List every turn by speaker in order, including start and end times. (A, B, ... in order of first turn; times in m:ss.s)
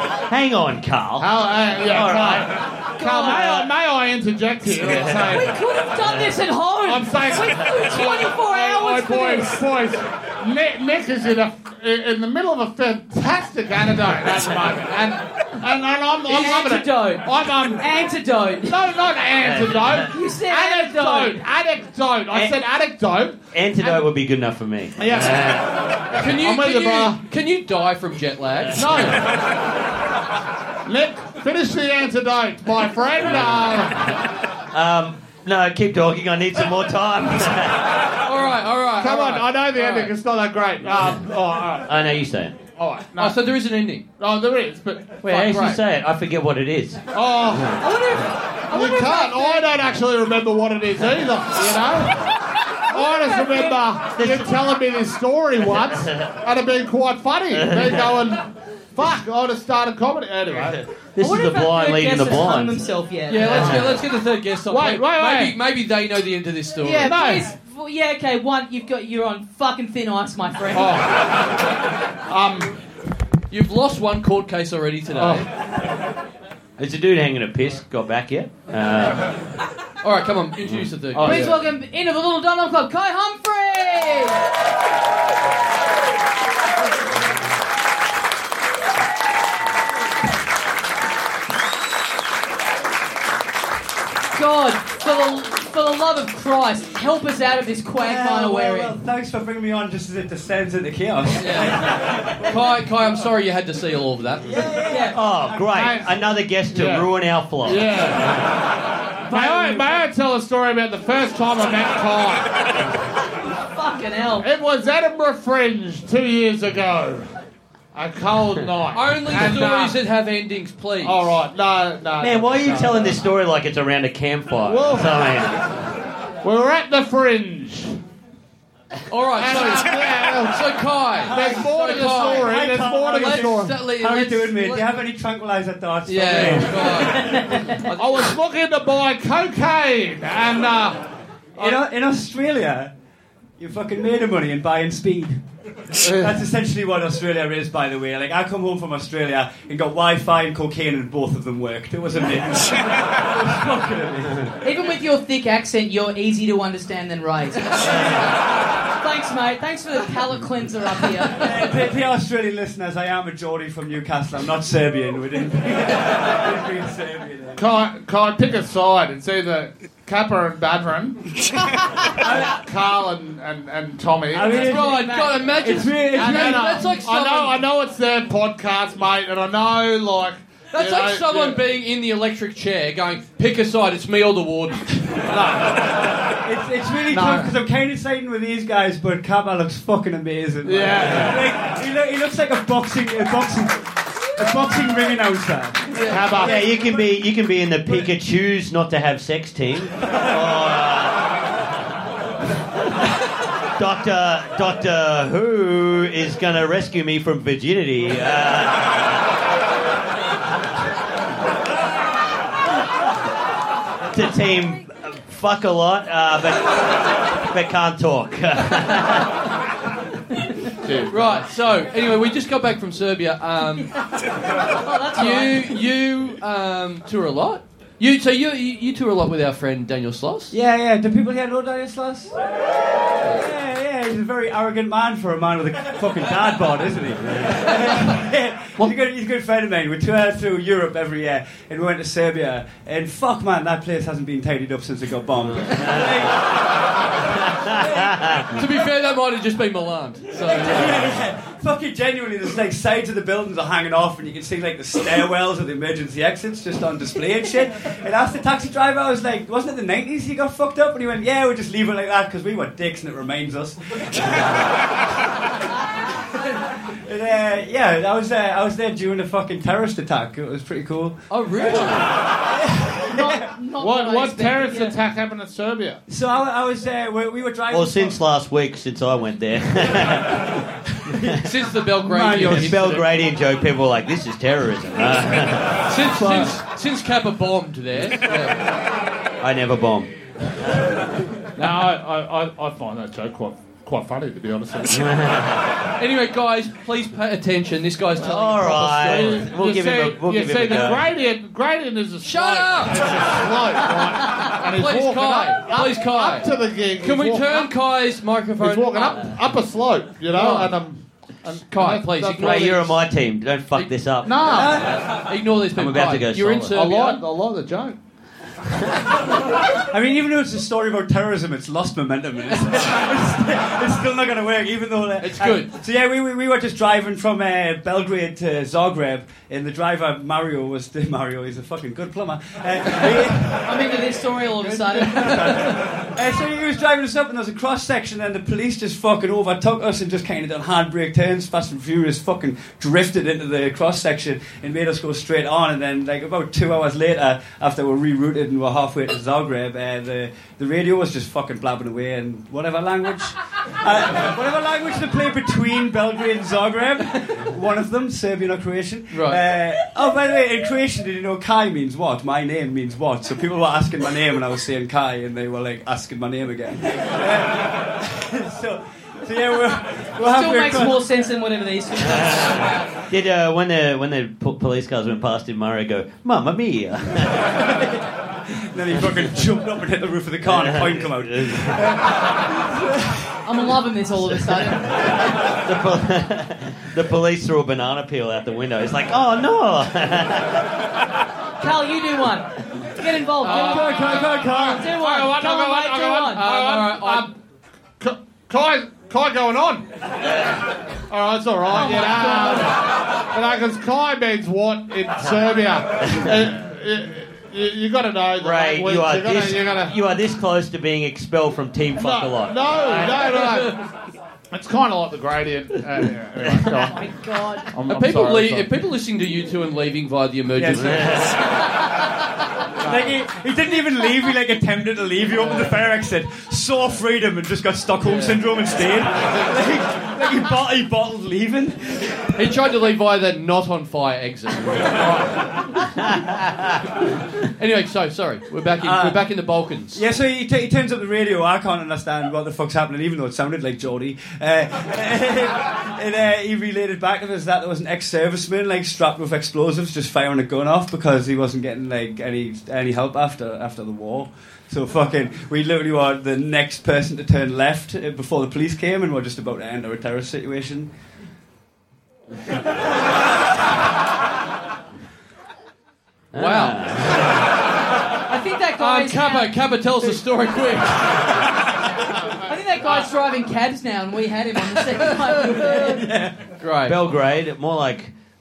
0:00.2-0:02.5 A
0:01.2-0:05.6 B
0:03.0-0:03.7 C
0:04.8-0:05.4 A
0:05.3-0:09.6 C
0:06.8-0:17.8 B
0:16.3-0:18.7 C
0:18.7-0:24.0 B
0:19.4-0:20.1 A
0:20.1-0:21.4 C
0:22.3-0:22.6 A
0:23.5-0:25.7 A
0:25.0-0:25.6 B
0:26.1-0:29.1 D
0:26.3-0:27.2 B
0:28.7-0:29.3 B
0:30.8-0:34.2 B
0:33.3-0:33.8 A
0:34.7-0:38.0 A
0:38.2-0:40.1 D
0:39.0-0:41.9 B
0:41.9-0:42.6 A
0:42.8-0:43.4 B
0:43.2-0:44.0 D
0:44.2-0:45.2 B
0:45.2-0:47.0 A
0:45.3-0:45.8 D
0:47.1-0:47.8 B
0:47.8-0:49.7 C
0:48.7-0:52.3 B
0:52.9-1:00.8 B
0:53.2-0:53.8 C
0:54.2-0:54.5 A
0:55.7-0:56.3 A
0:57.5-0:58.1 A
1:01.2-1:02.8 A
1:01.2-1:03.7 C
1:03.3-1:07.1 D
1:03.4-1:03.9 A
1:04.7-1:05.5 B
1:06.8-1:11.0 C
1:07.0-1:07.4 B
1:10.7-1:11.5 B
1:12.3-1:12.8 B
1:13.5-1:15.4 D
1:15.1-1:15.4 B
1:16.8-1:19.3 A
1:20.0-1:21.5 D
1:21.1-1:21.6 B
1:21.2-1:24.4 C
1:34.3-1:39.0 C
1:38.0-1:42.4 E
1:41.4-1:44.6 D
1:44.4-1:45.8 E
1:44.9-1:45.2 C
1:45.1-1:47.9 A
1:45.7-1:46.0 B
1:46.7-1:47.1 B
1:47.6-1:48.5 B
1:49.3-1:52.5 B
1:49.3-1:50.0 C
1:53.7-1:54.5 C
1:54.4-1:57.3 B
1:57.9-2:00.0 B
1:58.9-2:01.4 D
2:01.0-2:03.2 B
2:02.2-2:05.7 A
2:04.6-2:05.2 B
2:06.4-2:08.0 B
2:09.1-2:14.9 D
2:09.3-2:10.6 B
2:11.2-2:17.8 E
2:11.3-2:13.8 B
2:16.0-2:18.3 D
2:17.9-2:21.0 B
2:21.6-2:22.9 E
2:23.6-2:25.4 E
2:26.0-2:26.4 B
2:26.0-2:34.6 E
2:34.6-2:38.0 C
2:39.0-2:41.8 C
2:41.4-2:47.6 E
2:47.6-2:51.3 B
2:52.2-2:52.6 E
2:52.2-2:54.8 B
2:54.3-2:56.7 E
2:54.5-2:57.6 D
2:54.5-2:55.5 C
2:56.1-3:01.6 B
3:00.7-3:05.3 D
3:05.3-3:05.9 B
3:06.4-3:16.5 E
3:07.1-3:07.5 B
3:10.6-3:11.5 B
3:16.0-3:16.6 B
3:16.4-3:21.3 A
3:23.8-3:29.1 A
3:34.1-3:39.4 A
3:40.8-3:41.4 B
3:41.1-3:43.9 D
3:44.7-3:45.7 C
3:45.2-3:50.5 D
3:50.5-3:52.3 E
3:53.2-4:06.5 E
4:07.7-4:08.4 E
4:07.8-4:08.4 A
4:08.5-4:11.1 D
4:10.4-4:24.7 E
4:26.4-4:31.2 E
4:31.3-4:32.1 D
4:32.6-4:33.4 E
4:33.0-4:35.0 C
4:33.8-4:36.0 B
4:36.1-4:38.2 E
4:37.7-4:40.7 A
4:41.0-4:42.9 E
4:41.4-4:43.0 D
4:42.3-4:46.0 A
4:45.9-4:48.6 D
4:49.4-4:50.1 A
4:51.6-4:55.4 B
4:54.9-4:55.7 A
4:56.0-4:59.4 D
4:58.2-5:01.1 A
4:58.2-5:07.7 B
5:02.2-5:03.3 D
5:04.6-5:09.3 D
5:08.6-5:12.8 B
5:10.3-5:10.8 D
5:11.7-5:13.0 D
5:12.4-5:15.0 A
5:14.2-5:14.9 B
5:14.5-5:15.0 E
5:14.6-5:17.2 D
5:15.7-5:16.7 A
5:16.7-5:18.0 B
5:19.8-6:11.1 E
5:25.2-5:25.7 D
5:33.6-5:35.8 C
5:59.1-5:59.4 D
6:10.3-6:12.8 C
6:12.1-6:17.8 A
6:17.7-6:23.4 E
6:20.4-6:21.8 A
6:23.4-6:25.2 C
6:25.1-6:30.7 A
6:31.6-6:36.5 C
6:33.4-6:34.0 D
6:33.4-6:37.3 B
6:33.5-6:34.8 E
6:36.3-6:37.3 D
6:38.0-6:39.9 B
6:41.1-6:50.0 B
6:41.7-6:42.7 C
6:48.4-6:53.1 A
6:52.0-6:53.9 B
6:53.0-6:53.8 D
6:54.5-6:57.0 B
6:56.8-6:57.7 C
6:57.7-6:58.7 B
6:57.9-7:01.2 D
7:00.6-7:01.2 E
7:00.8-7:01.4 A
7:02.8-7:12.3 E
7:02.8-7:03.1 B
7:08.0-7:08.4 D
7:12.4-7:15.1 D
7:15.0-7:15.4 B
7:17.6-7:20.0 D
7:18.8-7:19.2 E
7:19.9-7:40.9 E
7:46.3-7:46.8 D
7:46.3-7:47.4 A
7:48.3-7:49.5 C
7:48.8-7:51.4 D
7:52.4-7:56.1 C
7:55.7-7:56.3 E
7:56.6-7:57.0 D
7:56.8-7:58.1 A